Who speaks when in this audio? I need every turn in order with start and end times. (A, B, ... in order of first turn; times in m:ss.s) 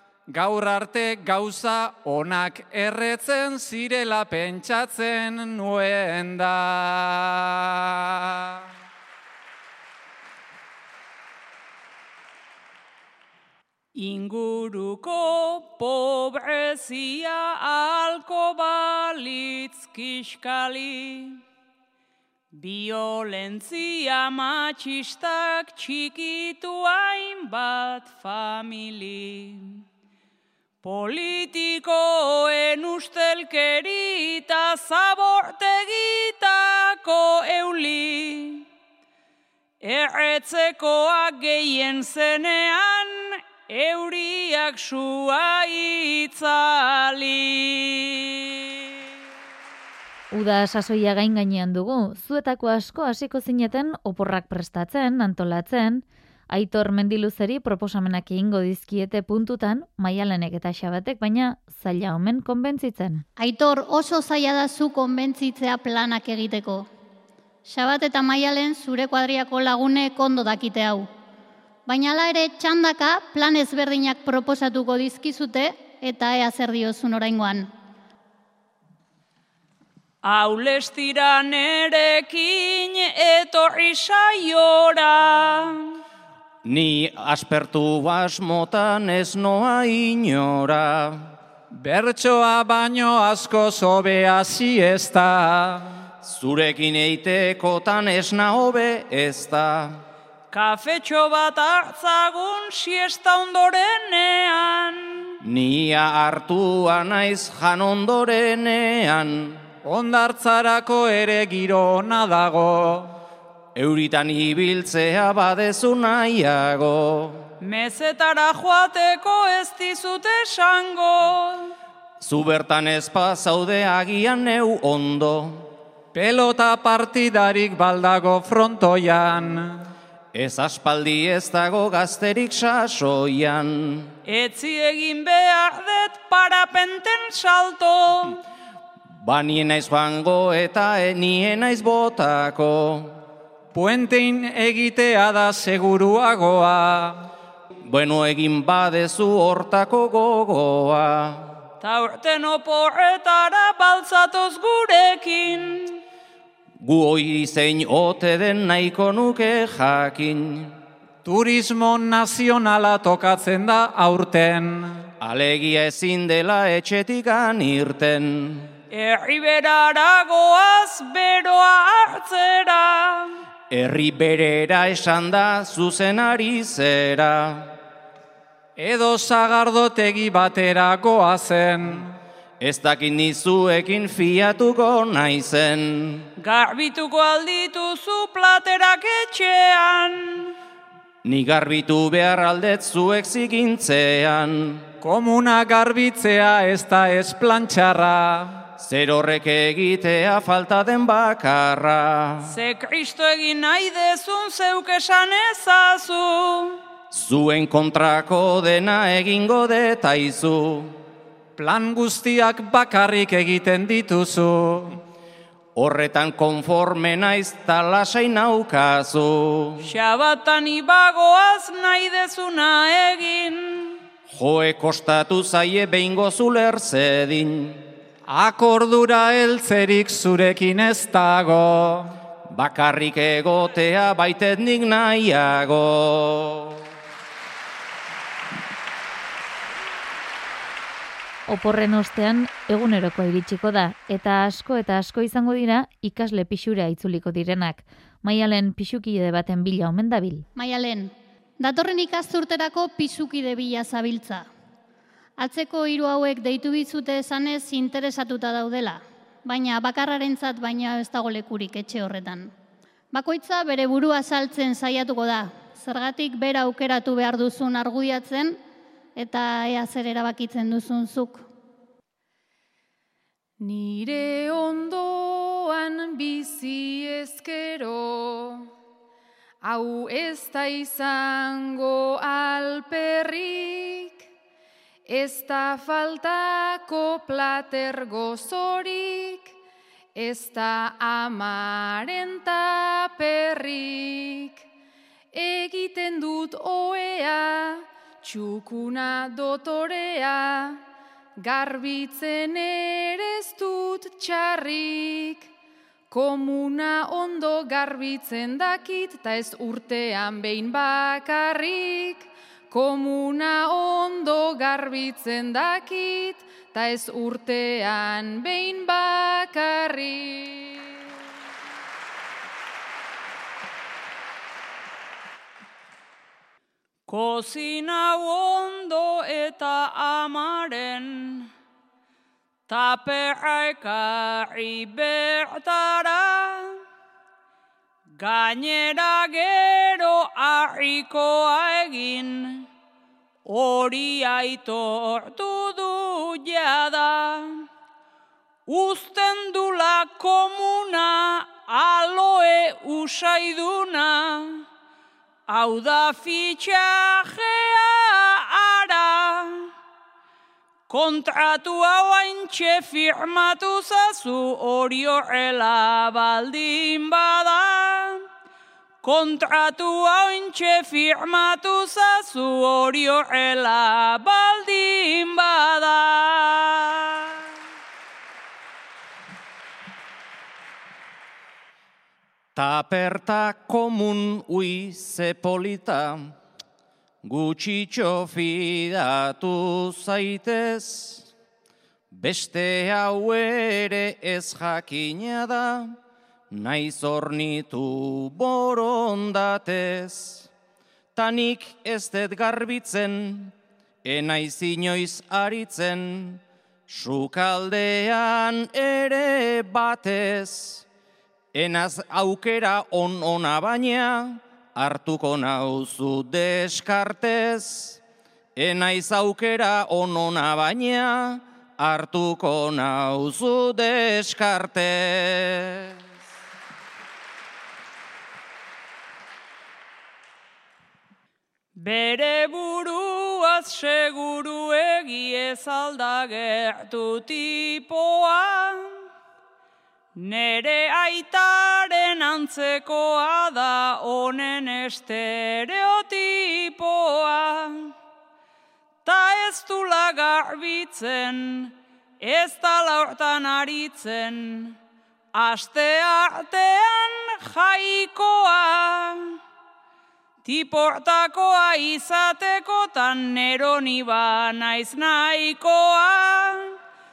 0:00.3-0:08.6 A
0:13.9-0:21.4 B
0:22.5-0:29.8 B
0:30.8-0:38.6 B
0:39.8-0:48.9 B
0:50.3-1:03.2 C
1:03.4-1:06.9 D
1:07.7-1:11.1 D
1:11.8-1:17.7 D
1:20.2-1:26.0 B
1:26.6-1:31.3 E
1:31.7-1:35.9 A
1:36.2-1:40.0 E
1:40.5-1:45.4 B
1:45.4-1:49.6 E
1:49.8-1:53.1 A
1:53.8-1:57.5 E
1:57.6-2:01.7 B
2:02.2-2:05.7 E
2:06.1-2:09.8 A
2:10.3-2:14.2 E
2:14.2-2:18.4 B
2:19.2-2:23.2 E
2:23.7-2:27.3 A
2:27.8-2:31.5 E
2:31.8-2:36.0 B
2:36.8-2:40.7 E
2:41.2-2:45.0 A
2:45.2-2:48.7 E
2:48.9-2:53.4 B
2:53.7-2:57.7 E
2:58.8-3:02.1 A
3:02.6-3:06.3 E
3:06.4-3:10.5 B
3:11.2-3:14.8 E
3:15.0-3:18.6 A
3:18.8-3:22.5 E
3:22.5-3:26.8 B
3:27.1-3:31.0 E
3:31.6-3:35.0 A
3:35.8-3:39.8 E
3:39.8-3:44.0 B
3:44.3-3:47.8 E
3:48.3-3:52.1 A
3:52.5-3:56.8 E
4:01.5-4:10.4 C
4:10.6-4:14.5 D
4:15.4-4:22.5 D
4:23.1-4:28.6 D
4:29.2-4:31.4 D
4:33.6-4:38.7 F
4:39.6-4:44.3 F
4:45.1-4:49.5 F
4:50.1-4:54.6 F
4:55.3-5:00.8 F
5:01.4-5:05.5 F
5:06.1-5:21.0 F
5:27.1-5:31.5 B
5:32.7-5:36.8 B
5:38.2-5:42.7 B
5:43.4-5:47.6 B
5:48.7-5:54.6 B
5:55.5-5:59.7 B
6:00.9-6:08.2 B
6:09.0-6:17.4 B
6:22.5-6:26.3 E
6:27.2-6:31.3 E
6:32.1-6:35.9 E
6:36.5-6:40.5 E
6:41.1-6:50.8 E
6:51.5-6:58.0 E
6:58.6-7:05.9 E
7:11.8-7:19.0 B
7:20.2-7:27.9 B
7:29.0-7:34.8 B
7:35.4-7:39.4 B
7:40.4-7:46.7 B